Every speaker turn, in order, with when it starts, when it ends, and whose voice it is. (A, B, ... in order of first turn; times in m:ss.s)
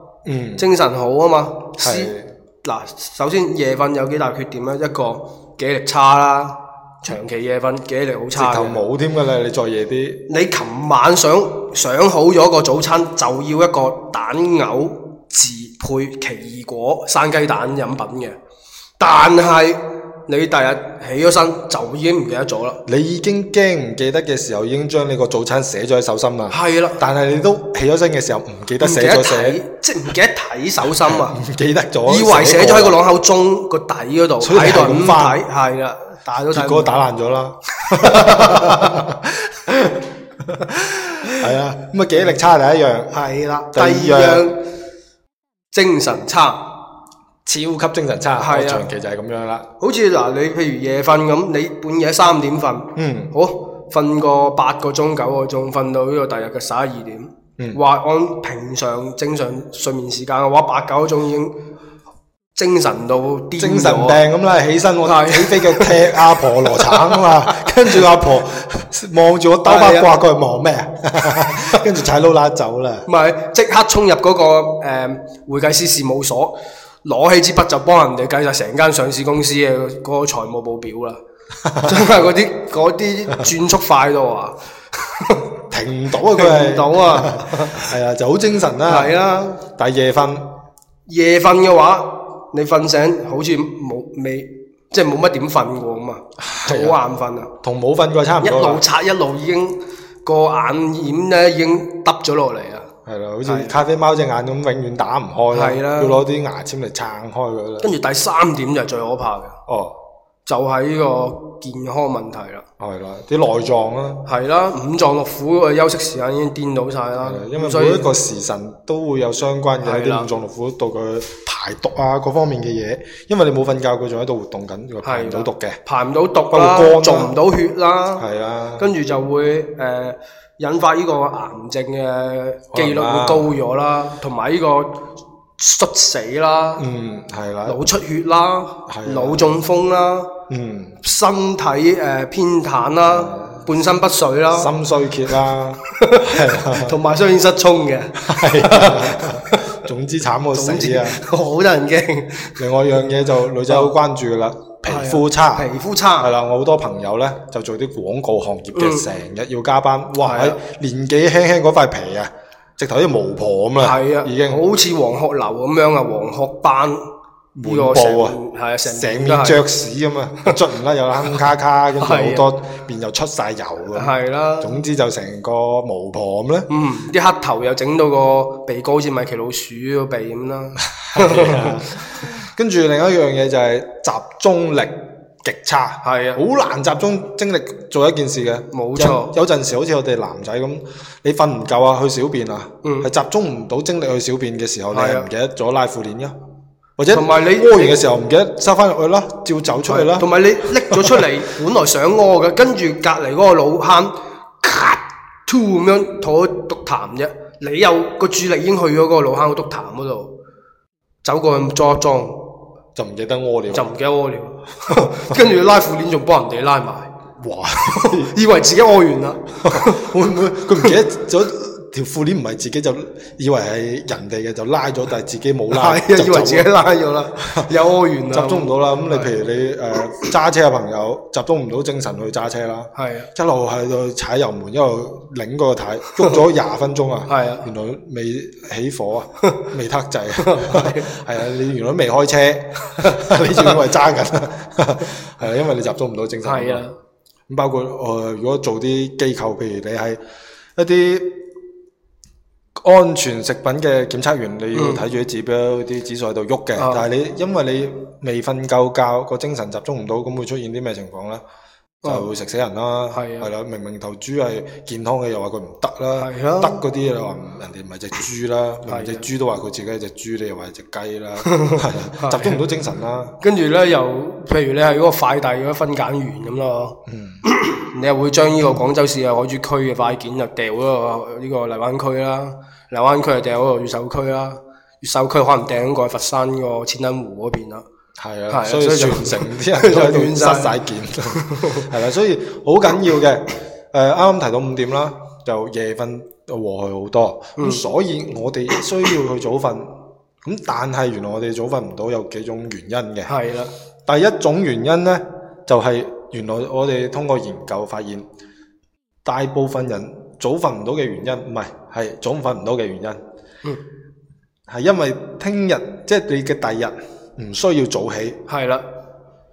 0:00.2-0:00.7 A
0:00.6-0:08.8 B
0:01.8-0:02.3 A
0:08.3-0:10.3 A
0:10.3-0:18.4 B
0:19.0-0:22.8 B
0:22.9-0:29.6 A
0:26.5-0:27.0 B
0:28.8-0:31.4 B
0:30.8-0:33.0 A
0:32.1-0:37.0 B
0:34.4-0:35.4 A
0:36.5-0:43.2 A
0:37.8-0:39.1 B
0:43.1-0:44.6 B
0:43.7-0:44.6 A
0:45.7-0:46.8 B
0:47.4-0:49.7 A
0:48.4-0:48.8 B
0:49.8-1:01.7 B
0:53.0-0:53.3 A
1:02.6-1:04.2 B
1:03.6-1:13.1 A
1:05.0-1:08.0 B
1:09.6-1:10.2 B
1:13.1-1:21.2 B
1:21.6-1:22.3 A
1:21.8-1:25.5 B
1:25.7-1:30.6 A
1:26.3-1:27.9 B
1:28.8-1:29.6 B
1:31.1-1:37.5 B
1:36.4-1:37.0 A
1:37.6-1:38.8 A
1:38.4-1:42.9 B
1:43.1-1:47.9 A
1:43.4-1:43.8 B
1:45.5-1:46.2 B
1:47.8-1:49.6 B
1:49.7-1:50.0 A
1:50.5-1:52.7 B
1:52.8-1:54.3 A
1:54.3-1:58.1 B
1:57.2-2:05.8 A
1:59.8-2:00.3 B
2:05.0-2:08.3 B
2:06.5-2:07.4 A
2:08.2-2:08.9 A
2:08.8-2:16.8 B
2:12.7-2:13.5 A
2:16.8-2:17.8 A
2:17.7-2:20.4 B
2:18.9-2:19.6 A
2:20.5-2:21.0 A
2:21.0-2:24.7 B
2:23.1-2:23.7 A
2:24.5-2:27.0 A
2:25.9-2:29.8 B
2:28.2-2:31.2 A
2:30.5-2:32.6 B
2:32.6-2:44.6 A
2:33.7-2:34.0 B
2:34.9-2:36.3 B
2:38.8-2:39.1 B
2:40.2-2:40.6 B
2:43.8-2:47.1 B
2:47.6-2:56.7 A
2:47.6-2:49.7 B
2:52.0-2:52.5 B
2:54.0-2:54.8 B
2:56.7-3:02.0 B
3:01.0-3:16.4 A
3:06.0-3:06.4 B
3:08.7-3:09.3 B
3:12.8-3:13.1 B
3:14.9-3:15.3 B
3:17.0-3:21.3 A
3:17.1-3:18.0 B
3:19.9-3:30.4 B
3:31.2-3:32.6 B
3:33.0-3:33.9 A
3:33.7-3:37.1 B
3:34.9-3:35.4 A
3:37.4-3:38.4 A
3:37.9-3:40.1 B
3:39.6-3:46.8 A
3:45.7-3:49.3 B
3:47.4-3:47.7 A
3:48.3-4:06.8 A
3:53.0-3:53.3 B
3:57.3-3:57.7 B
4:00.4-4:01.2 B
4:03.0-4:03.8 B
4:06.4-4:07.0 B
4:07.5-4:10.2 A
4:10.8-4:11.5 A
4:12.8-4:21.4 A
4:14.7-4:15.0 B
4:16.8-4:17.0 B
4:22.0-4:22.3 B
4:22.0-4:33.4 A
4:23.1-4:23.5 B
4:26.2-4:26.8 B
4:28.9-4:29.3 B
4:31.4-4:32.6 B
4:33.4-4:47.8 B
4:37.1-4:37.4 A
4:48.2-5:03.3 A
4:48.5-4:50.8 B
4:51.3-4:51.9 B
4:57.6-4:57.8 B
5:03.3-5:03.7 B
5:04.1-5:08.3 A
5:09.2-5:13.2 A
5:14.7-5:18.4 A
5:18.5-5:18.9 B